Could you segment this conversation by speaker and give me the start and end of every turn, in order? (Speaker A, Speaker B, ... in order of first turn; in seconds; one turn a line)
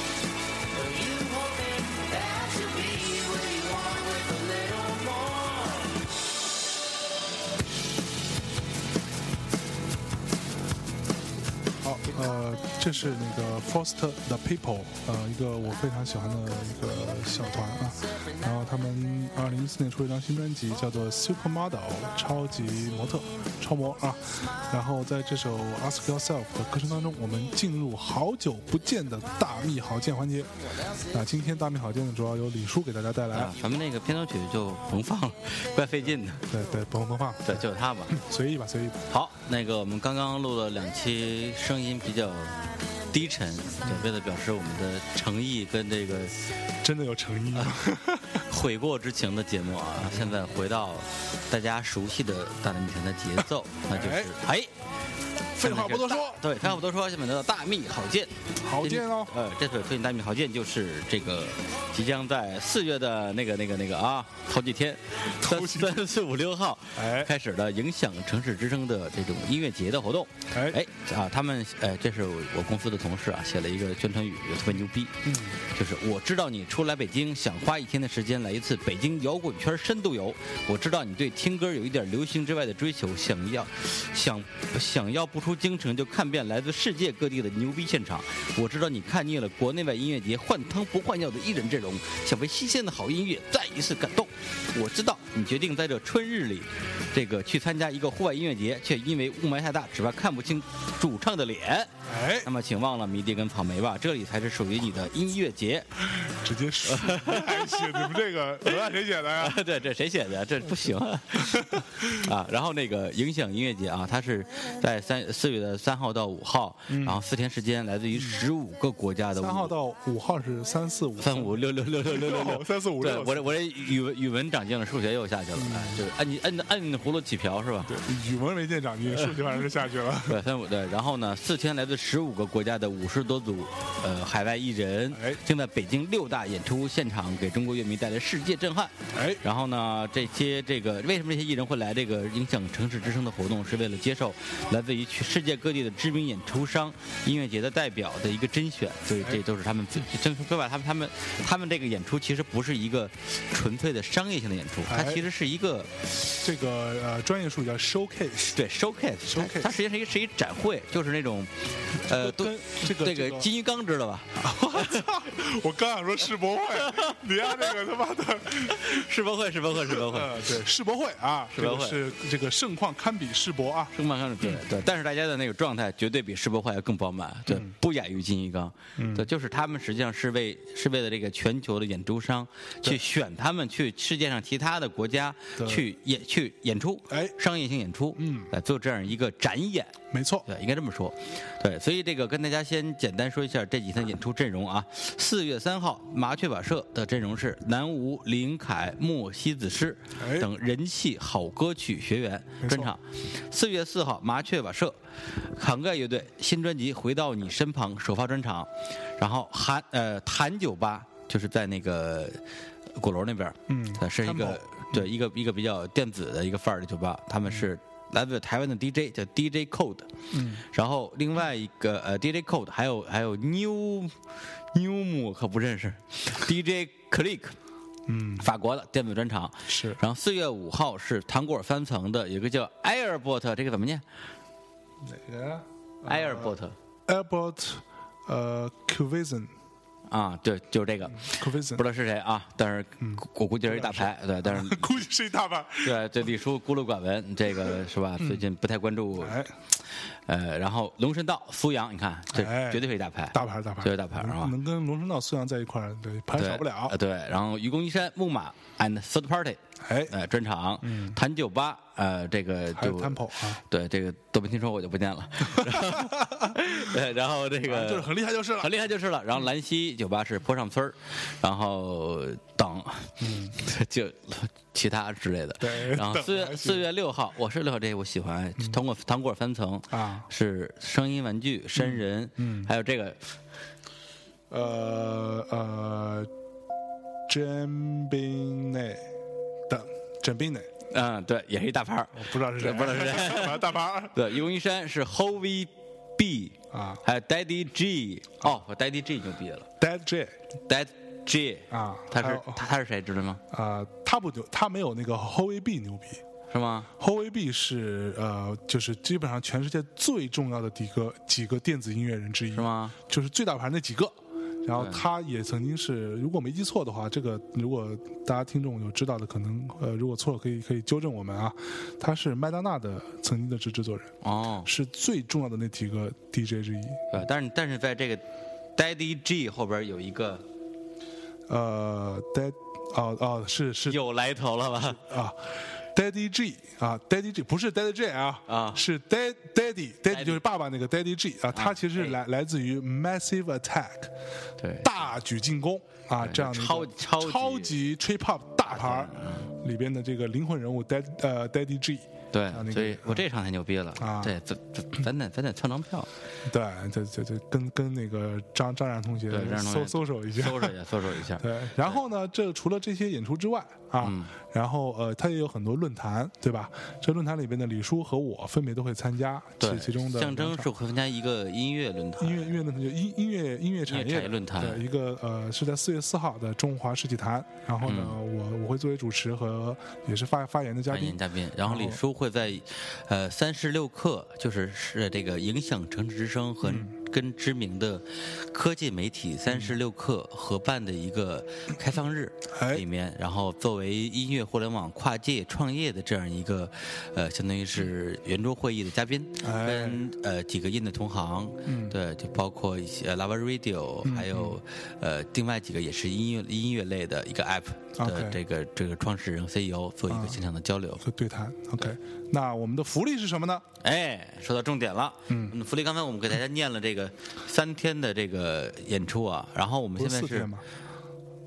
Speaker A: 0.8-1.4
Speaker A: 2.0-3.9
Speaker B: 11.8-30.5
Speaker B: 31.1-33.6
Speaker C: 33.3-36.5
Speaker B: 36.5-39.0
Speaker C: 37.5-38.2
Speaker C: 39.1-46.4
Speaker B: 46.8-48.4
Speaker C: 48.4-54.7
Speaker B: 50.0-50.3
Speaker B: 53.9-54.4
Speaker B: 55.5-56.6
Speaker C: 55.6-106.1
Speaker B: 58.6-59.3
Speaker B: 65.4-66.0
Speaker B: 67.0-67.3
Speaker B: 70.5-70.8
Speaker B: 75.2-75.6
Speaker B: 102.1-102.5
Speaker B: 106.1-109.6
Speaker C: 106.8-108.2
Speaker C: 109.4-119.7
Speaker B: 111.4-112.3
Speaker B: 116.9-117.2
Speaker B: 118.2-118.4
Speaker B: 119.4-123.5
Speaker C: 121.2-128.0
Speaker B: 125.6-126.0
Speaker B: 127.8-130.4
Speaker C: 130.3-155.9
Speaker B: 135.1-135.4
Speaker B: 139.1-139.4
Speaker B: 154.9-155.3
Speaker B: 156.2-158.6
Speaker C: 158.5-165.2
Speaker B: 159.3-159.7
Speaker B: 162.1-163.5
Speaker B: 164.4-169.1
Speaker C: 166.8-167.2
Speaker C: 168.7-170.5
Speaker B: 169.8-174.6
Speaker C: 171.5-172.0
Speaker C: 173.9-212.4
Speaker B: 179.0-179.3
Speaker B: 185.6-185.9
Speaker B: 187.1-187.3
Speaker B: 188.2-188.5
Speaker B: 190.1-190.5
Speaker B: 200.2-200.5
Speaker B: 202.6-202.9
Speaker C: 212.9-224.2
Speaker B: 213.7-215.1
Speaker B: 220.3-220.6
Speaker C: 224.7-227.6
Speaker B: 228.1-228.5
Speaker C: 228.4-234.0
Speaker B: 229.7-230.0
Speaker B: 235.0-236.6
Speaker C: 236.1-236.7
Speaker B: 237.1-239.5
Speaker C: 240.1-245.0
Speaker B: 241.1-241.8
Speaker B: 243.0-246.0
Speaker C: 245.8-249.4
Speaker B: 247.6-248.4
Speaker B: 249.2-249.5
Speaker C: 250.3-254.6
Speaker B: 252.3-256.9
Speaker C: 256.4-283.2
Speaker B: 259.8-260.1
Speaker B: 260.8-261.2
Speaker B: 262.7-263.6
Speaker B: 265.6-266.6
Speaker B: 267.6-268.7
Speaker B: 273.2-273.6
Speaker B: 275.6-276.9
Speaker B: 279.9-280.3
Speaker B: 281.8-282.7
Speaker B: 284.5-286.3
Speaker B: 287.3-289.1
Speaker B: 289.7-290.7
Speaker C: 290.9-299.7
Speaker B: 292.1-294.2
Speaker B: 296.7-297.0
Speaker B: 299.8-300.4
Speaker C: 300.7-303.4
Speaker B: 301.7-302.6
Speaker B: 303.5-306.2
Speaker C: 306.5-306.9
Speaker B: 307.0-327.1
Speaker C: 312.5-312.9
Speaker C: 314.8-315.0
Speaker C: 324.2-324.7
Speaker C: 327.1-328.2
Speaker C: 328.8-330.4
Speaker B: 331.5-334.0
Speaker C: 333.9-335.0
Speaker B: 334.8-344.1
Speaker C: 338.5-338.8
Speaker C: 340.1-340.4
Speaker C: 341.5-342.2
Speaker C: 344.6-344.9
Speaker B: 344.8-353.2
Speaker C: 346.2-347.8
Speaker C: 348.7-349.5
Speaker C: 352.3-356.1
Speaker B: 354.0-354.4
Speaker B: 356.4-360.7
Speaker C: 359.3-362.0
Speaker B: 361.4-370.7
Speaker C: 364.0-364.3
Speaker C: 369.6-372.5
Speaker B: 372.2-382.0
Speaker C: 373.9-374.8
Speaker C: 377.8-378.2
Speaker C: 380.9-411.1
Speaker B: 386.6-386.9
Speaker B: 392.5-392.9
Speaker B: 399.4-400.0
Speaker B: 401.7-401.9
Speaker B: 404.0-404.6
Speaker B: 408.0-408.4
Speaker B: 410.1-410.4
Speaker B: 411.0-413.6
Speaker C: 413.8-420.5
Speaker B: 415.3-415.6
Speaker B: 420.0-420.6